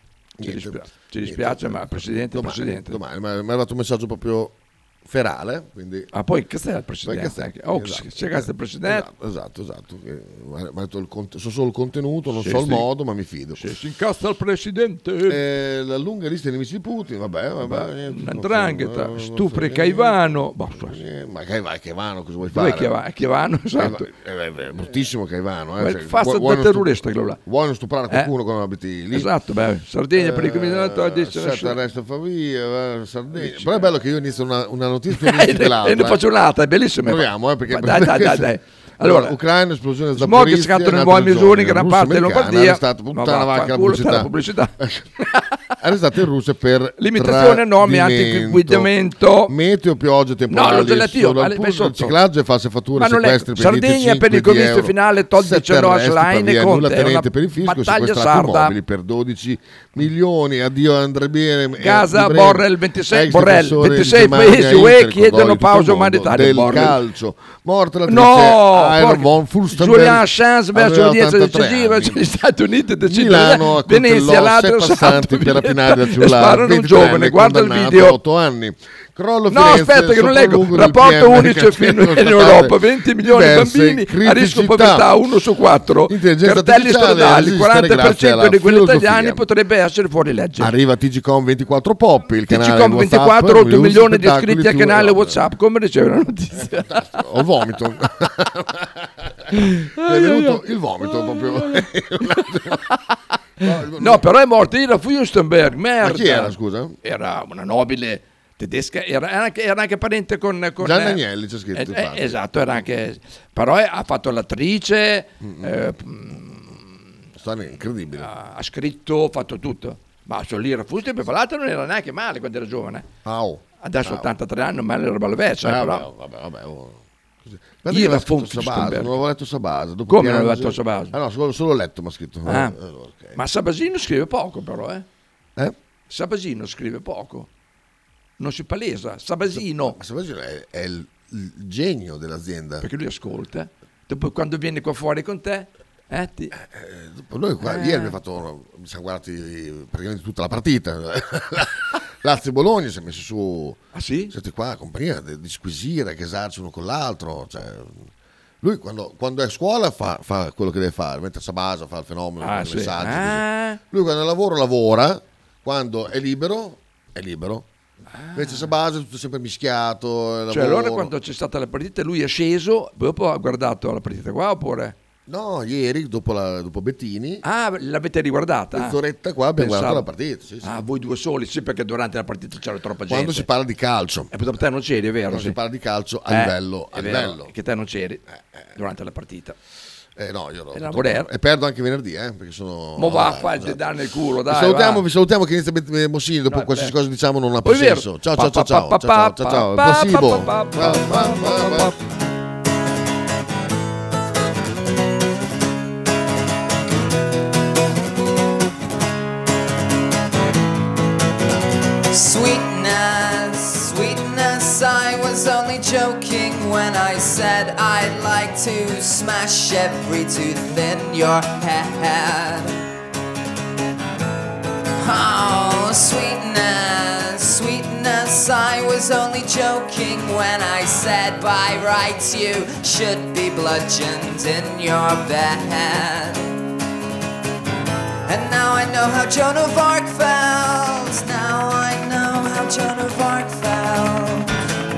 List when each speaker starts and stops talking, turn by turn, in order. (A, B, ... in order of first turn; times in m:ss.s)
0:00.4-0:06.1 A
0:00.4-0:03.0 B
0:06.1-0:09.1 B
0:07.1-0:13.7 A
0:12.3-0:12.9 B
0:13.6-0:15.4 B
0:15.3-0:22.9 A
0:17.6-0:21.0 B
0:22.5-0:24.1 B
0:23.8-0:29.3 A
0:25.8-0:27.4 B
0:29.1-0:31.8 B
0:30.1-0:36.2 A
0:33.4-0:33.9 B
0:35.1-0:39.4 B
0:37.0-0:45.1 A
0:40.2-0:45.7 B
0:45.8-0:48.9 A
0:47.0-0:49.5 B
0:49.5-1:12.2 A
0:50.5-0:52.2 B
0:53.0-0:58.8 B
1:01.8-1:07.0 B
1:08.1-1:18.2 B
1:13.0-1:25.2 A
1:19.5-1:30.7 B
1:26.1-1:29.4 A
1:30.6-1:35.4 A
1:32.5-1:37.0 B
1:36.7-1:42.8 A
1:39.5-1:51.2 B
1:43.6-1:44.3 A
1:46.0-1:47.0 A
1:50.8-1:52.8 A
1:51.7-1:57.0 B
1:55.4-1:56.0 A
1:57.4-1:58.3 A
1:58.2-2:03.0 B
2:03.2-2:04.3 A
2:03.8-2:06.1 B
2:05.6-2:13.4 A
2:07.9-2:09.2 B
2:10.1-2:11.2 B
2:12.5-2:12.8 B
2:13.4-2:15.1 B
2:16.1-2:17.5 B
2:18.4-2:20.0 B
2:19.5-2:22.9 A
2:22.8-2:26.5 B
2:26.5-2:38.1 A
2:27.6-2:28.2 B
2:33.9-2:34.3 B
2:38.6-2:47.7 A
2:42.4-2:43.8 B
2:48.1-2:48.7 B
2:48.3-2:51.1 A
2:50.5-2:55.0 B
2:55.3-2:57.4 A
2:57.4-2:59.0 B
2:58.7-3:00.8 A
2:59.6-3:00.1 B
3:00.6-3:03.5 B
3:03.1-3:04.4 A
3:04.3-3:05.6 B
3:05.3-3:07.5 A
3:06.3-3:08.2 B
3:08.3-3:08.8 A
3:08.8-3:09.6 B
3:10.2-3:13.9 A
3:10.7-3:11.3 B
3:13.0-3:15.0 B
3:14.4-3:21.9 A
3:16.5-3:17.0 B
3:17.6-3:22.0 B
3:32.1-3:42.8 C
3:45.0-3:56.6 C
3:58.3-4:04.6 C